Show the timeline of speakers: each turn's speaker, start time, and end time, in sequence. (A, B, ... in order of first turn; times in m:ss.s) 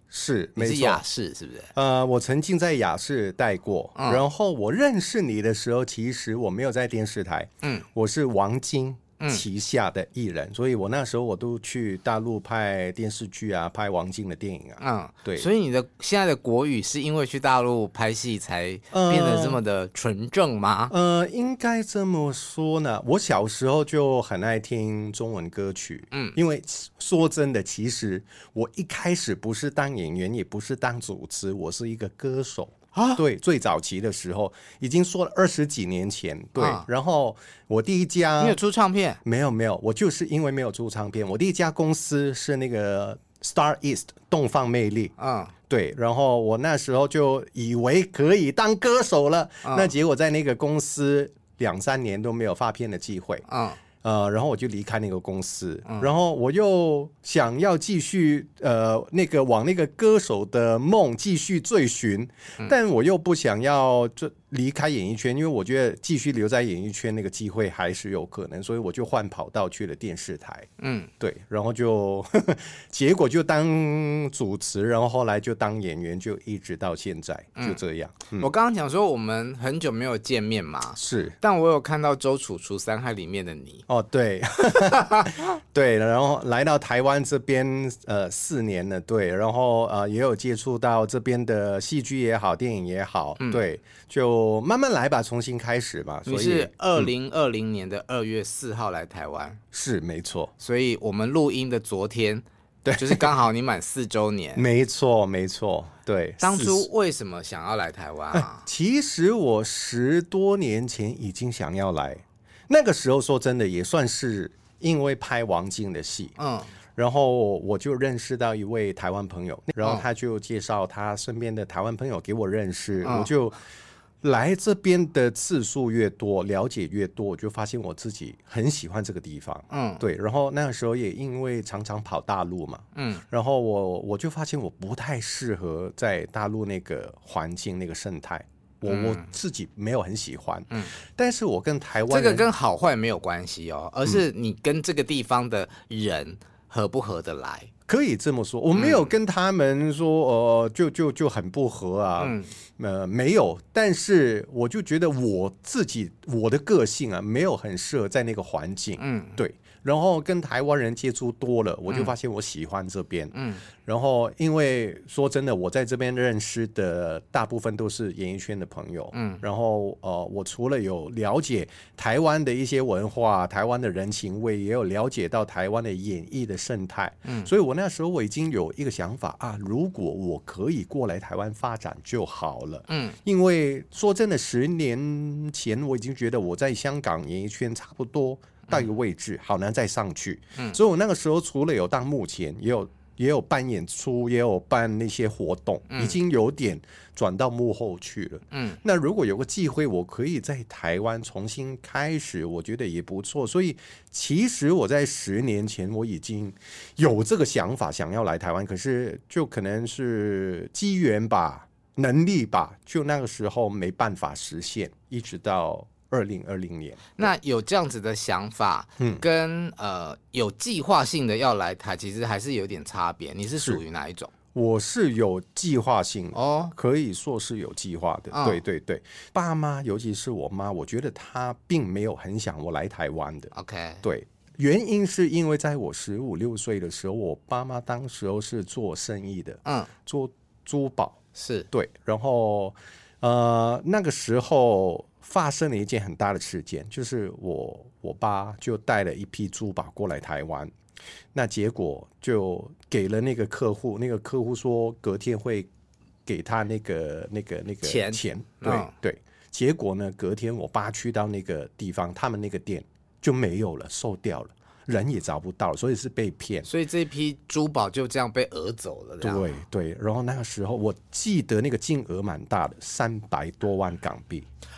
0:00.1-0:01.0 A
0:00.6-0:01.7 B
0:01.7-0:15.5 A
0:04.0-0:04.2 B
0:14.8-0:20.9 B
0:18.9-0:19.6 A
0:20.9-0:38.6 A
0:26.1-0:26.4 B
0:32.9-0:33.2 B
0:36.6-0:36.9 B
0:38.4-0:39.2 B
0:39.2-0:45.1 A
0:45.2-0:45.5 B
0:45.7-0:53.4 A
0:49.6-0:49.9 B
0:53.5-0:53.8 B
0:54.0-1:18.5 A
1:10.8-1:11.1 B
1:18.4-1:23.8 B
1:21.0-1:21.3 A
1:23.9-1:37.1 A
1:36.2-1:39.6 B
1:39.7-1:40.5 A
1:40.6-1:44.6 B
1:42.8-1:43.3 A
1:44.6-1:46.9 A
1:46.4-1:48.6 B
1:48.3-1:56.3 A
1:56.4-1:56.7 B
1:57.0-2:03.6 A
2:03.0-2:03.3 B
2:04.2-2:22.4 A
2:09.7-2:10.0 B
2:13.0-2:13.2 B
2:18.9-2:19.2 B
2:22.1-2:27.7 B
2:27.9-3:37.3 A
2:28.7-2:29.1 B
2:32.2-2:32.5 B
2:39.0-2:39.4 B
2:43.3-2:43.6 B
2:49.1-2:49.4 B
3:02.9-3:03.2 B
3:15.9-3:16.2 B
3:18.5-3:18.8 B
3:37.2-3:44.3 B
3:43.6-3:43.8 A
3:44.5-4:01.2 A
3:46.3-3:46.7 B
3:48.3-3:48.6 B
3:53.5-3:54.0 B
3:59.6-3:59.9 B
4:01.4-4:01.7 B
4:01.7-4:10.7 A
4:11.3-4:15.7 A
4:16.2-4:26.7 A
4:17.8-4:18.9 B
4:26.6-4:29.6 B
4:29.2-4:34.5 A